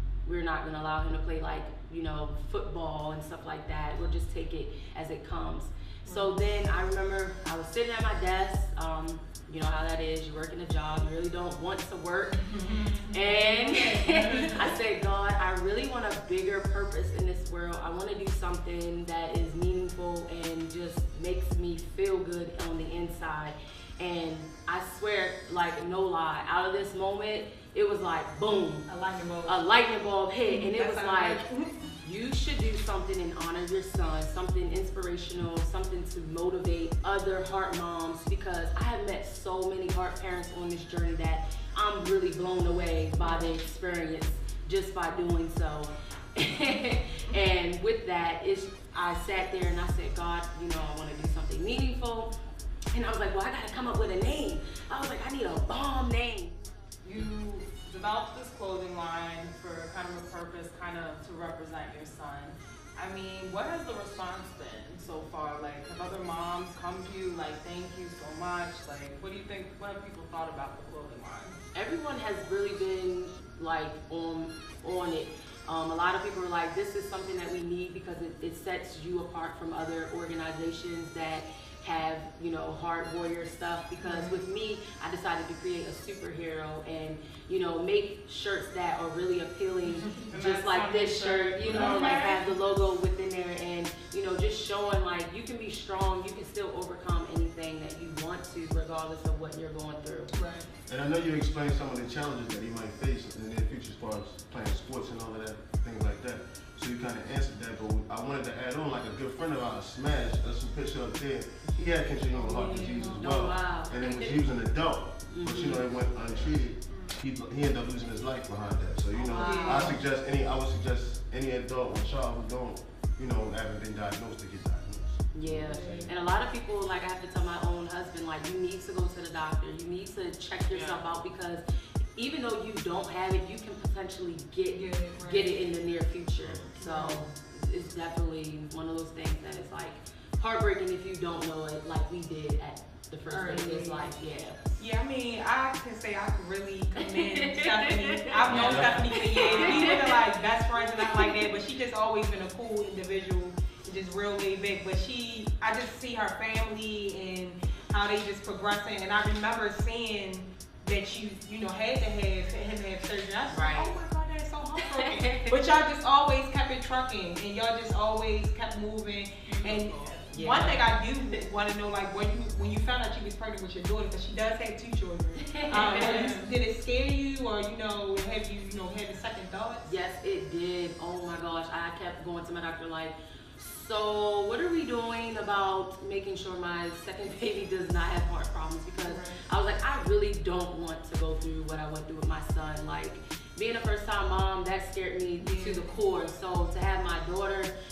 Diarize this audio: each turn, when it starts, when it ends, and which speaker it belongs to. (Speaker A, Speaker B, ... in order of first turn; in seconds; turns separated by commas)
Speaker A: 0.2-12.5, Speaker B: 6.1-6.4, Speaker B: 12.4-14.7, Speaker A: 13.1-28.9, Speaker B: 28.9-29.6, Speaker A: 29.4-31.4, Speaker B: 30.5-31.9, Speaker A: 32.0-52.3, Speaker B: 43.2-43.5, Speaker A: 52.9-56.6, Speaker C: 57.0-71.6, Speaker A: 71.7-100.4, Speaker B: 84.0-84.4, Speaker B: 89.9-90.3, Speaker C: 90.3-92.3, Speaker B: 91.7-92.4, Speaker B: 100.3-100.7, Speaker D: 100.9-126.1, Speaker B: 112.3-113.4, Speaker A: 113.0-114.4, Speaker A: 115.3-115.8, Speaker B: 116.9-117.2, Speaker A: 119.2-120.0, Speaker B: 119.2-120.0, Speaker A: 125.3-131.6, Speaker B: 125.7-126.1, Speaker C: 130.7-131.0, Speaker A: 132.2-144.6, Speaker B: 134.7-135.5, Speaker D: 136.4-136.7, Speaker B: 136.8-137.3, Speaker B: 143.3-144.1, Speaker B: 144.8-179.9, Speaker A: 147.0-150.2, Speaker C: 148.5-149.8, Speaker D: 148.5-149.1, Speaker A: 163.5-164.0, Speaker A: 165.1-165.5, Speaker C: 169.5-170.1, Speaker A: 170.3-170.8, Speaker A: 175.4-176.3, Speaker A: 179.8-197.7, Speaker B: 189.0-189.4, Speaker B: 195.4-195.9